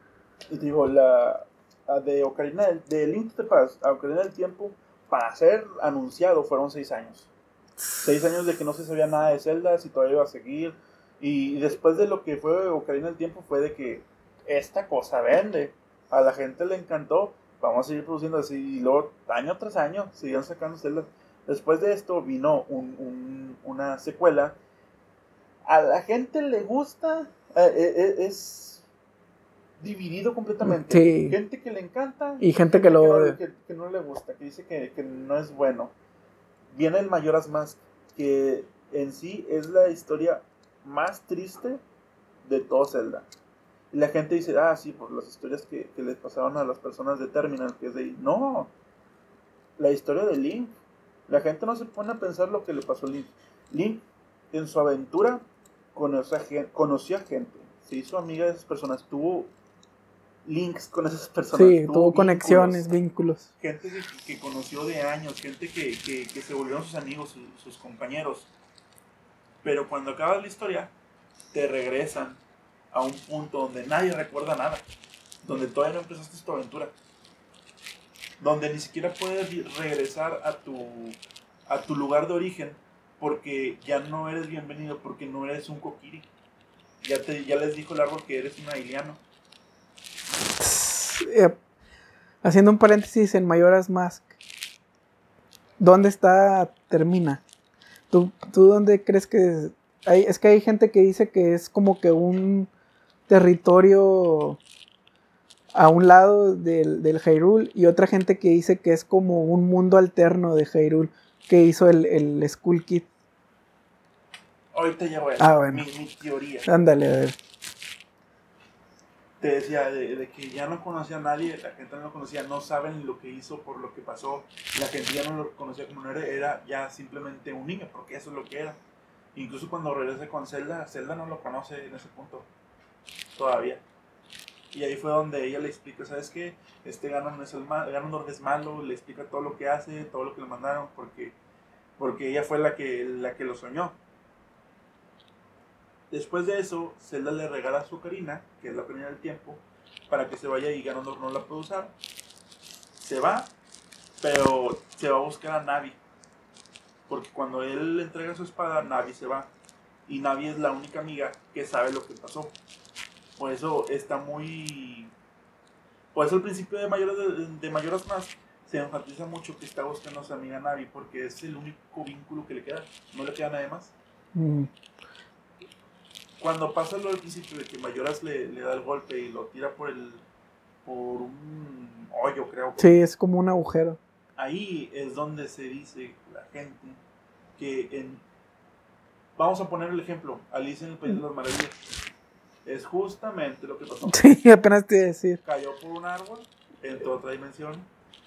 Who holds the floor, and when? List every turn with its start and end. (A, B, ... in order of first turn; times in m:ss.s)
0:00.5-0:07.3 A
0:08.0-0:24.6 A
0:25.7-0:28.8 A
0:29.8-0:35.9 A
0:30.6-0:31.4 B
0:32.4-0:33.4 B
0:36.7-0:41.8 A
0:42.5-0:43.3 A
0:43.9-0:48.7 A
0:49.8-0:50.7 A
0:51.3-0:55.4 A
0:56.0-0:59.5 A
1:00.4-1:02.9 A
1:01.5-1:03.5 B
1:03.6-1:08.5 A
1:09.6-1:10.9 A
1:11.5-1:12.4 A
1:12.9-1:14.8 A
1:15.4-1:16.9 A
1:18.4-1:21.2 A
1:21.7-1:26.3 A
1:27.0-1:29.2 A
1:30.6-1:31.6 B
1:32.4-1:34.3 B
1:35.8-1:37.4 B
1:38.1-1:42.7 B
1:43.3-1:44.6 B
1:45.7-1:53.1 B
1:54.7-1:56.7 A
1:55.4-1:55.8 B
1:56.6-1:57.4 B
1:59.4-2:08.8 A
2:09.4-2:12.5 A
2:13.4-2:13.8 A
2:14.7-2:21.4 A
2:22.0-2:24.0 A
2:26.1-2:31.9 A
2:33.0-2:33.5 A
2:34.2-2:36.0 A
2:37.1-2:39.5 A
2:40.1-2:42.5 A
2:43.4-2:45.1 A
2:46.1-2:53.9 A
2:54.3-2:54.7 B
2:56.4-3:00.2 A
3:00.8-3:03.0 A
3:02.8-3:04.0 B
3:04.4-3:07.0 A
3:07.6-3:08.2 A
3:09.4-3:11.8 A
3:12.6-3:14.4 A
3:14.1-3:15.4 B
3:15.4-3:17.9 A